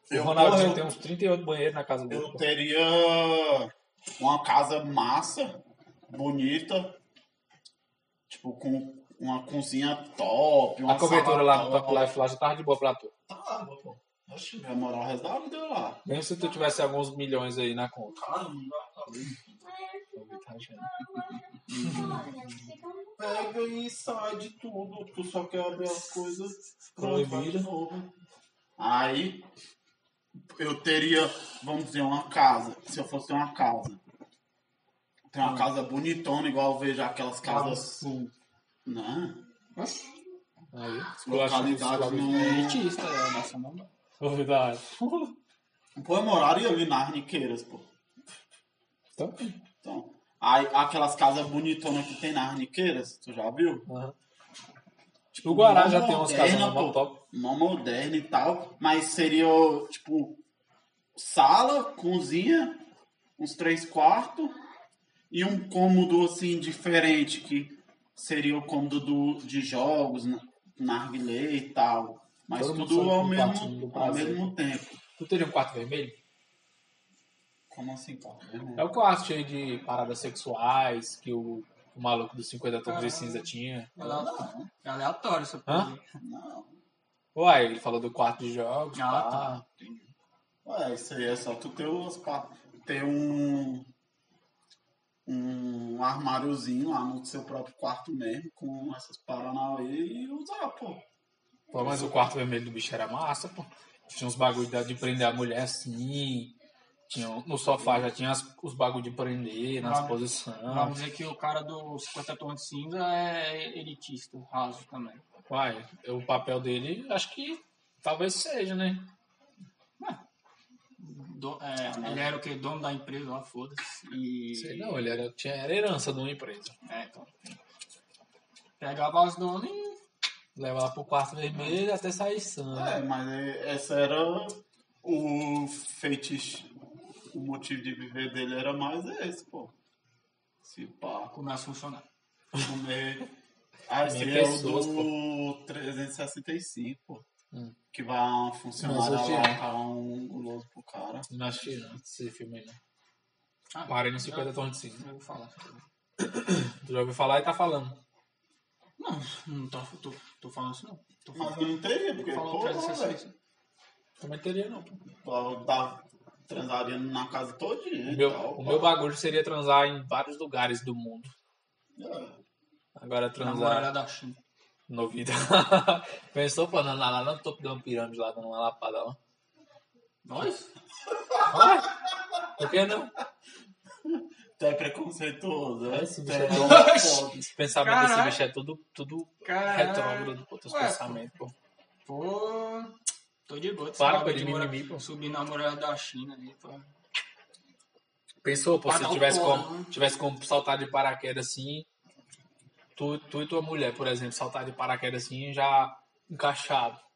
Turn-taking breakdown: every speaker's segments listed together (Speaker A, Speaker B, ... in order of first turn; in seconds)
Speaker A: 0.1-0.9, 2.1-7.0, 8.3-12.1, 13.3-16.0, 18.1-19.6, 23.2-28.1, 28.8-29.4, 30.5-34.0, 35.3-38.2, 38.9-39.4, 41.2-42.9, 46.0-47.9, 49.8-53.9, 55.4-60.4, 61.1-62.8, 63.4-64.5, 65.3-75.0, 77.7-78.9, 84.0-84.7, 86.2-86.8, 90.7-93.9, 95.3-101.0, 101.8-102.1, 121.8-122.3, 132.7-136.7, 137.3-139.7, 140.6-141.3, 142.6-143.3, 143.9-147.2, 147.9-151.3, 161.3-163.2, 165.2-168.9, 172.0-172.4, 181.2-181.8, 184.0-187.5
Speaker B: 0.1-2.5, 10.9-13.1, 16.1-18.3, 20.1-20.9, 21.9-22.2, 27.0-27.7, 40.7-42.4, 44.2-45.4, 49.2-49.6, 53.9-54.1, 55.3-57.2, 72.6-74.5, 75.2-76.2, 78.8-84.0, 85.7-85.9, 87.3-89.6, 101.7-106.6, 107.1-111.0, 115.5-119.1, 124.5-126.7, 130.6-133.0, 144.1-145.1, 148.8-149.6, 151.3-152.8, 153.9-155.1, 156.2-158.0, 164.2-165.0, 168.1-171.3, 173.0-173.9, 174.9-179.2, 181.5-181.9, 182.6-183.2, 185.9-191.6, 194.0-195.0, 198.4-201.9, 203.0-207.0
Speaker C: 16.4-16.9, 19.6-23.6
Speaker D: 21.7-22.2, 35.4-35.7, 37.5-38.3, 39.8-40.0, 42.2-43.9, 82.9-86.0, 88.9-90.1, 109.8-115.2, 121.0-125.2, 126.8-127.3, 128.8-130.0, 141.3-142.1, 153.7-155.9, 159.0-161.7, 162.3-163.3, 173.4-174.4, 180.2-180.7, 186.5-188.4, 189.4-191.2, 192.1-196.9, 198.9-199.9